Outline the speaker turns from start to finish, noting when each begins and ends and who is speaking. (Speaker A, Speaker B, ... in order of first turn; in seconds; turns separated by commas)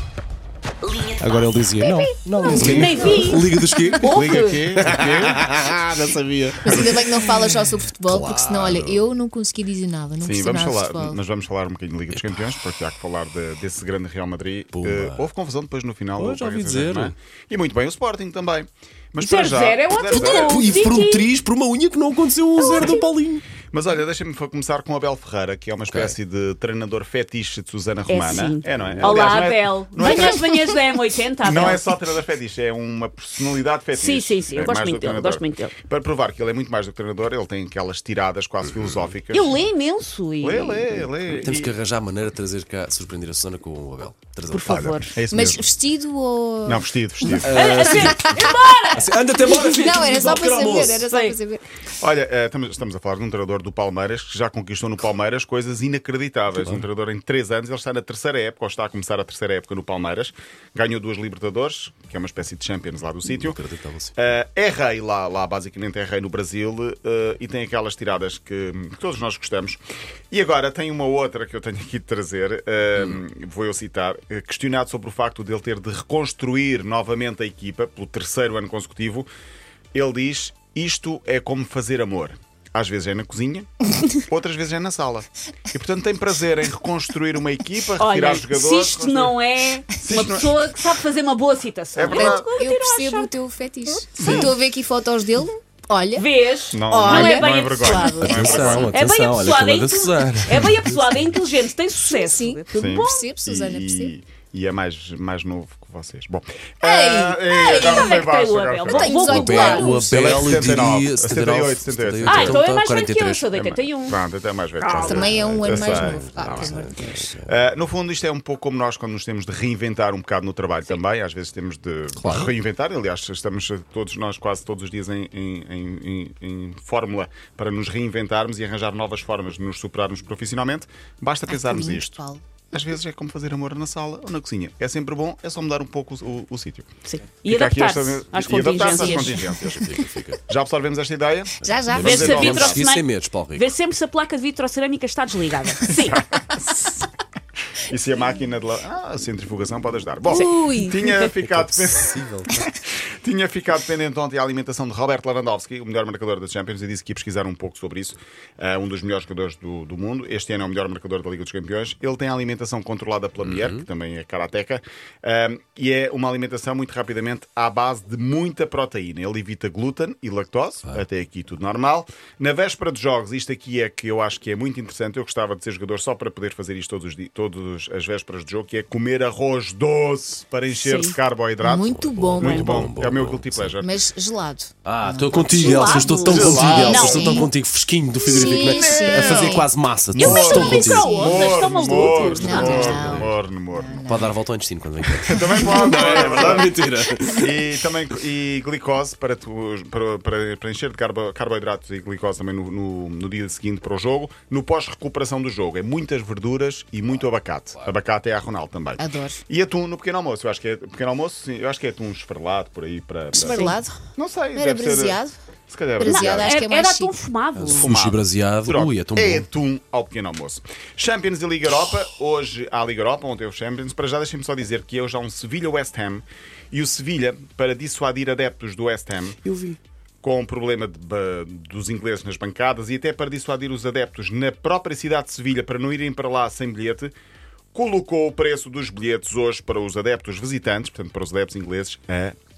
Speaker A: 1.1-7.2, Speaker B: 1.9-4.0, Speaker C: 2.4-4.7, Speaker D: 2.5-3.1, Speaker D: 4.0-5.4, Speaker B: 6.6-11.2, Speaker A: 8.1-9.0, Speaker D: 10.2-20.9, Speaker A: 12.1-12.6, Speaker A: 14.7-15.2, Speaker A: 16.2-17.1, Speaker C: 19.2-21.3, Speaker A: 20.1-23.4, Speaker C: 22.6-22.9, Speaker D: 23.7-30.8, Speaker A: 25.9-26.1, Speaker C: 28.1-31.9, Speaker A: 28.8-29.4, Speaker D: 31.4-39.6, Speaker C: 33.9-35.7, Speaker C: 39.3-41.0, Speaker D: 40.4-41.7, Speaker A: 41.2-45.0, Speaker C: 44.5-45.1, Speaker D: 44.6-45.6, Speaker B: 45.3-46.8, Speaker D: 46.6-47.9, Speaker A: 47.4-51.1, Speaker C: 47.5-50.1, Speaker B: 47.9-48.5, Speaker B: 49.4-51.6, Speaker C: 50.9-51.4, Speaker D: 52.0-63.6, Speaker A: 56.6-56.8, Speaker A: 63.2-64.2, Speaker D: 64.2-69.8, Speaker D: 70.3-79.3, Speaker D: 79.9-89.4, Speaker C: 88.0-93.3, Speaker D: 90.0-90.5, Speaker D: 92.0-92.5, Speaker B: 92.0-96.3, Speaker C: 93.9-94.5, Speaker D: 94.2-94.5, Speaker C: 96.2-103.2, Speaker D: 96.7-99.0, Speaker B: 96.9-97.5, Speaker A: 98.2-101.0, Speaker B: 102.1-104.1, Speaker D: 102.8-112.6, Speaker B: 106.8-108.2, Speaker C: 107.4-110.0, Speaker B: 108.9-110.3, Speaker A: 109.2-113.4, Speaker C: 112.2-114.2, Speaker D: 113.5-116.9, Speaker C: 114.8-115.4, Speaker B: 114.9-117.3, Speaker A: 115.6-117.5, Speaker D: 117.4-136.9, Speaker A: 122.2-122.5, Speaker B: 131.5-132.4, Speaker C: 137.0-139.5, Speaker D: 137.4-142.8, Speaker A: 139.5-140.4, Speaker A: 141.6-143.7, Speaker B: 141.6-142.3, Speaker C: 142.0-146.2, Speaker D: 145.9-147.1, Speaker D: 147.8-184.0, Speaker B: 150.3-151.0, Speaker C: 150.3-151.2, Speaker A: 151.4-152.6, Speaker A: 163.4-163.8, Speaker C: 180.8-181.2, Speaker B: 181.6-182.9, Speaker A: 181.9-183.8, Speaker C: 182.4-182.8, Speaker B: 183.8-187.5, Speaker A: 184.8-193.3, Speaker C: 185.5-187.5, Speaker D: 186.3-187.4, Speaker B: 188.2-189.7, Speaker D: 188.4-194.1, Speaker C: 190.1-193.0, Speaker B: 190.5-191.5, Speaker B: 192.0-194.3, Speaker A: 194.1-197.5, Speaker D: 195.2-216.6, Speaker B: 209.0-209.4, Speaker B: 213.3-214.0, Speaker C: 213.4-213.8, Speaker B: 214.5-215.3, Speaker B: 216.0-217.1, Speaker C: 216.0-217.9, Speaker A: 217.6-219.5, Speaker D: 217.7-229.4, Speaker A: 229.4-229.8, Speaker D: 230.2-237.1, Speaker D: 237.7-242.3